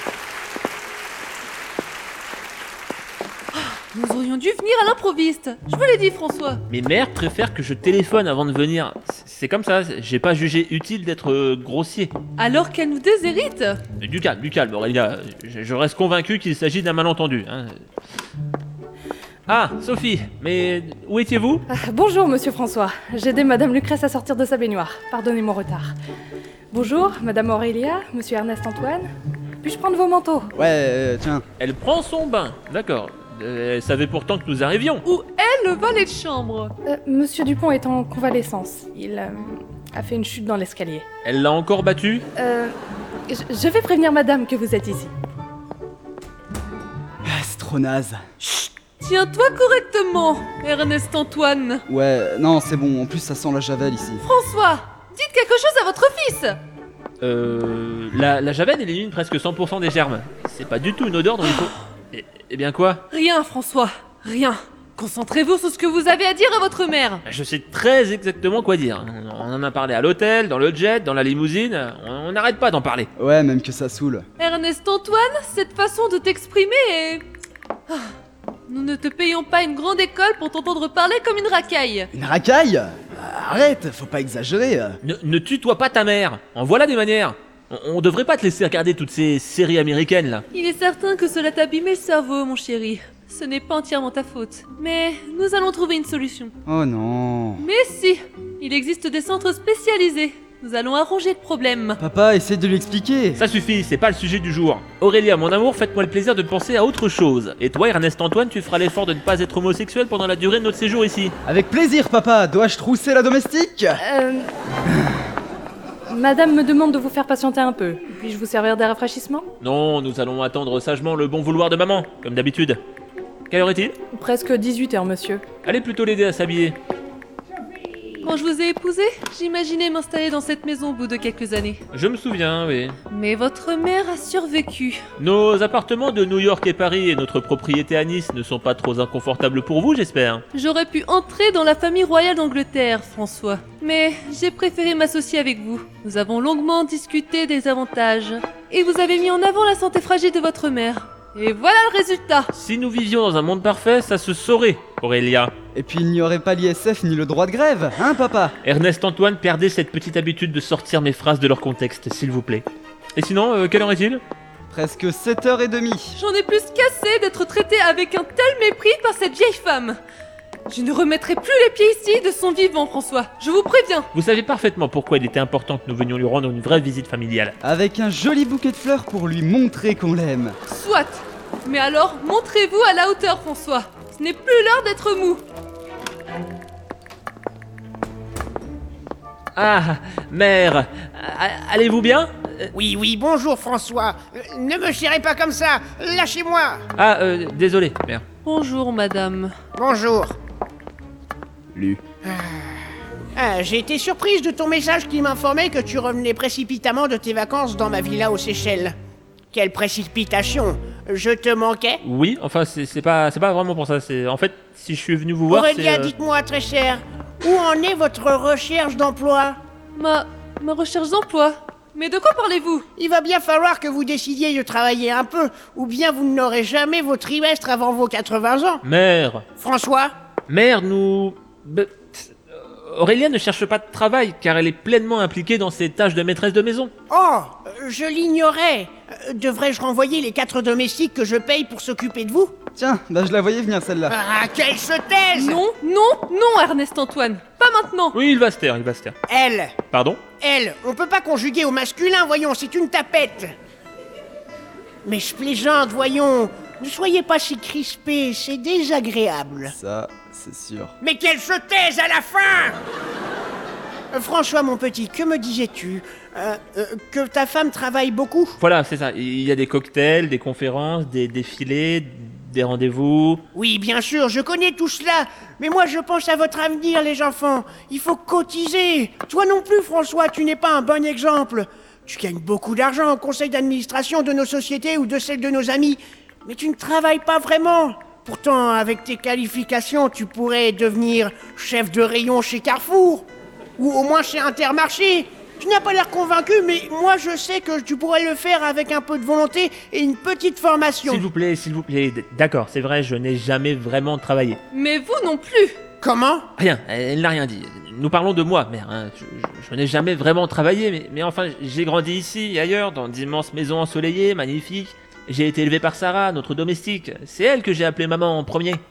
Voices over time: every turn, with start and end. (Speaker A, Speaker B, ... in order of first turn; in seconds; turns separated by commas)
Speaker A: 3.5-6.6, Speaker B: 6.7-12.1, Speaker A: 12.4-13.8, Speaker B: 14.0-17.8, Speaker B: 19.5-21.6, Speaker C: 21.7-25.9, Speaker C: 26.7-29.1, Speaker C: 29.6-30.5, Speaker D: 30.6-31.4, Speaker B: 31.6-35.0, Speaker A: 35.0-36.7, Speaker C: 36.9-41.0, Speaker B: 41.2-42.2, Speaker C: 42.4-42.7, Speaker C: 43.3-45.1, Speaker D: 47.2-48.2, Speaker A: 48.4-51.8, Speaker D: 51.9-54.2, Speaker A: 54.2-56.6, Speaker B: 57.2-63.0, Speaker A: 63.1-67.2, Speaker B: 67.2-73.1, Speaker D: 73.2-74.2, Speaker A: 74.4-77.2, Speaker A: 78.7-82.1, Speaker D: 82.1-85.0, Speaker B: 85.0-90.4, Speaker A: 90.5-96.5, Speaker D: 96.7-97.6, Speaker A: 97.6-102.0, Speaker D: 102.0-103.4, Speaker B: 103.3-111.3, Speaker D: 111.4-114.0, Speaker C: 114.0-114.5, Speaker C: 116.1-119.5, Speaker B: 119.6-122.8, Speaker B: 123.5-124.0, Speaker C: 124.1-125.4, Speaker B: 125.6-126.8, Speaker A: 128.2-131.8, Speaker B: 131.9-133.0, Speaker A: 133.1-135.0, Speaker B: 135.2-140.4, Speaker A: 140.5-152.5, Speaker B: 152.5-155.5, Speaker D: 155.7-158.5, Speaker B: 158.6-164.2, Speaker D: 164.7-166.2, Speaker A: 166.2-170.0, Speaker A: 170.7-174.1, Speaker B: 174.1-177.6, Speaker D: 177.6-180.6, Speaker A: 180.7-185.4, Speaker B: 189.5-192.7, Speaker E: 192.7-196.8, Speaker B: 196.9-198.2, Speaker A: 198.4-199.5, Speaker E: 199.8-200.3, Speaker D: 201.7-202.0, Speaker E: 202.2-202.8, Speaker E: 203.3-208.9, Speaker E: 209.5-212.0, Speaker B: 212.0-216.1, Speaker E: 215.5-219.6, Speaker A: 219.9-222.9, Speaker E: 223.0-228.8, Speaker B: 228.8-229.4, Speaker E: 229.6-230.1, Speaker B: 230.5-236.9, Speaker E: 237.1-242.5, Speaker D: 242.7-244.2, Speaker E: 244.1-245.6, Speaker A: 245.3-248.2, Speaker B: 248.1-249.1, Speaker E: 249.3-249.7, Speaker B: 249.9-250.2, Speaker E: 250.4-253.5, Speaker E: 255.0-259.7, Speaker D: 259.7-260.9, Speaker E: 261.0-262.8, Speaker E: 264.1-268.6, Speaker B: 268.6-273.4, Speaker E: 273.5-293.2, Speaker E: 293.8-301.3, Speaker B: 301.0-304.6, Speaker A: 304.7-305.8, Speaker E: 306.0-306.5, Speaker B: 306.6-318.8